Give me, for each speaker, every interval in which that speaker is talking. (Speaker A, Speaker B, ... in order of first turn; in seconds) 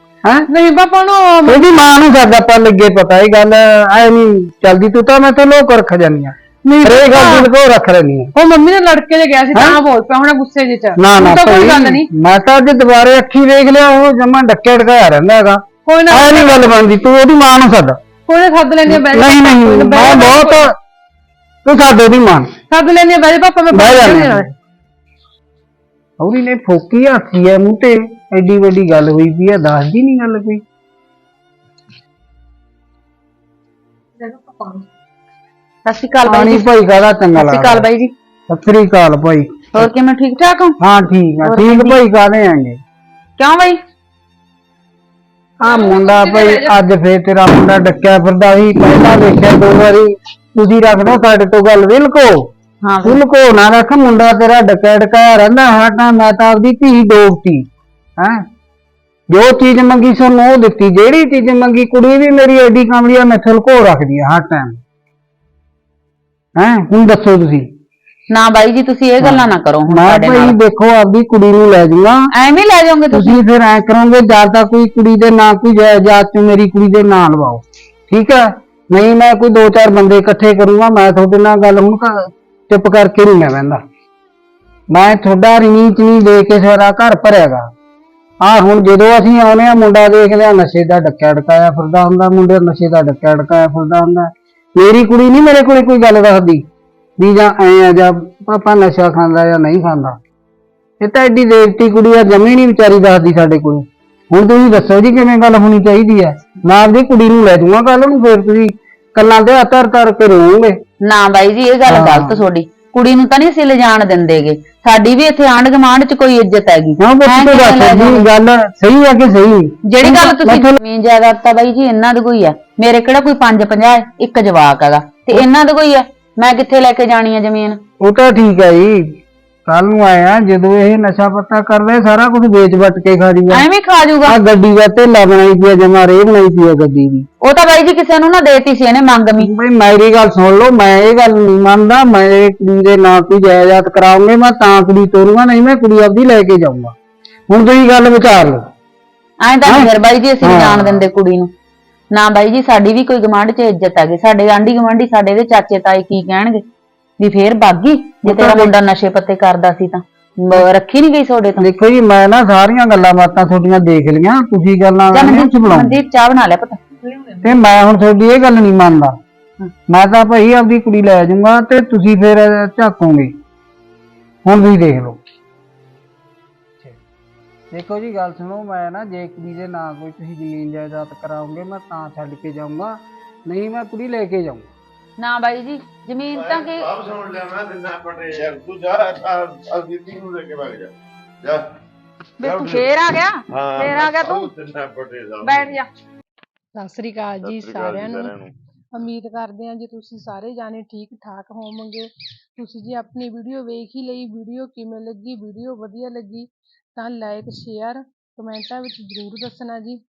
Speaker A: 0.5-1.6, 6.7-7.5, 8.3-12.1, 15.8-16.7, 18.3-20.7, 22.7-24.5, 34.2-34.8, 45.6-46.8, 196.7-198.3, 198.9-210.0
Speaker B: 1.4-8.3, 9.5-9.8, 11.0-18.0, 18.9-20.7, 21.6-22.5, 23.7-24.5, 26.2-30.6, 36.2-37.9, 38.5-39.5, 40.8-42.8, 45.6-52.4, 53.0-57.7, 59.3-64.8, 66.6-67.7, 69.2-72.2, 73.1-83.8, 84.9-87.7, 88.4-96.6, 97.2-100.2, 101.0-110.8, 111.9-112.4, 117.0-120.8, 128.0-129.0, 129.7-133.6, 134.2-137.2, 139.4-146.9, 147.5-148.6, 149.7-151.1, 158.2-158.7, 161.6-166.0, 167.4-169.1, 169.9-173.3, 174.4-175.2, 177.7-184.7
Speaker C: 35.8-36.7, 37.3-38.1, 39.7-40.8, 41.4-42.0, 43.4-43.8, 52.8-53.2, 68.3-70.5, 72.3-73.4, 111.0-118.3, 119.9-127.8, 133.5-134.4, 137.4-139.5, 149.4-151.5, 152.1-156.6, 157.2-161.6, 165.1-166.8, 185.2-186.9, 192.4-194.5, 195.4-195.8
Speaker D: 186.3-191.7, 192.4-192.9, 193.5-195.8, 197.4-198.5